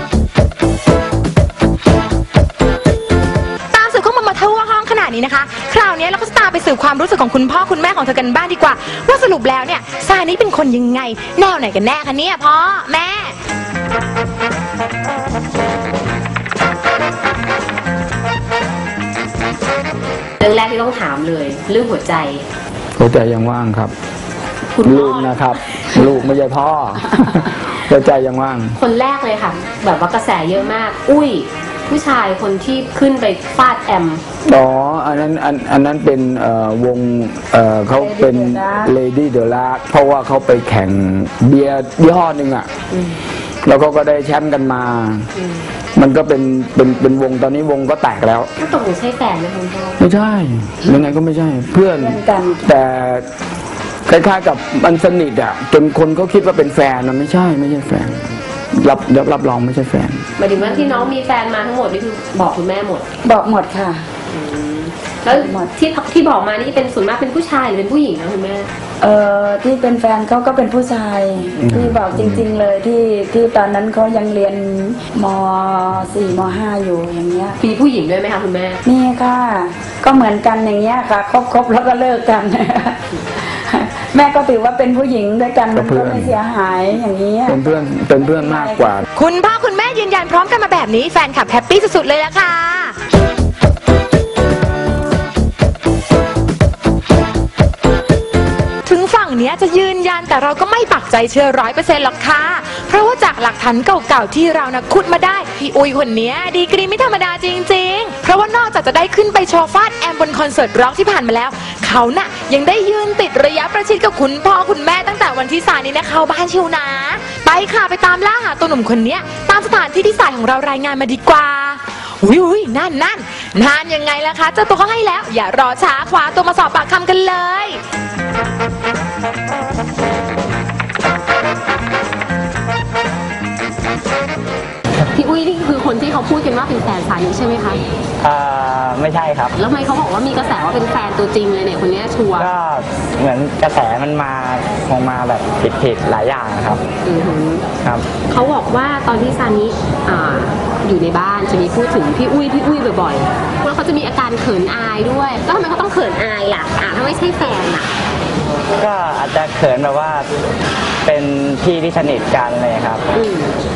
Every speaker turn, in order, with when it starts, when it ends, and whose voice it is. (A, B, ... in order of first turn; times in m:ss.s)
0:03.7-0:13.4 A
0:20.4-0:22.4 B
0:23.0-0:23.9 C
0:24.8-0:26.2 B
0:24.8-0:28.8 C
0:28.8-0:34.2 B
0:34.4-0:42.7 C
0:37.9-0:38.9 D
0:42.9-0:43.2 B
0:43.6-0:45.3 C
0:45.4-0:45.6 B
0:46.0-0:48.5 C
0:48.6-0:50.0 B
0:50.0-0:53.2 C
0:51.9-0:52.7 D
0:54.0-0:58.2 C
0:58.7-1:00.2 C
1:00.4-1:03.0 B
1:00.7-1:01.0 D
1:03.2-1:04.0 D
1:04.3-1:08.7 B
1:05.3-1:05.7 D
1:09.0-1:17.6 D
1:11.6-1:12.4 C
1:17.6-1:18.8 B
1:18.8-1:29.0 D
1:25.7-1:26.4 C
1:27.4-1:29.0 C
1:29.1-1:33.0 A
1:38.8-2:07.8 A
2:15.1-2:17.8 B
2:18.2-2:19.5 E
2:19.5-2:22.5 B
2:22.3-2:26.8 E
2:27.0-2:27.7 B
2:28.2-2:37.9 B
2:38.8-2:40.3 E
2:41.0-2:43.0 E
2:43.1-2:43.5 B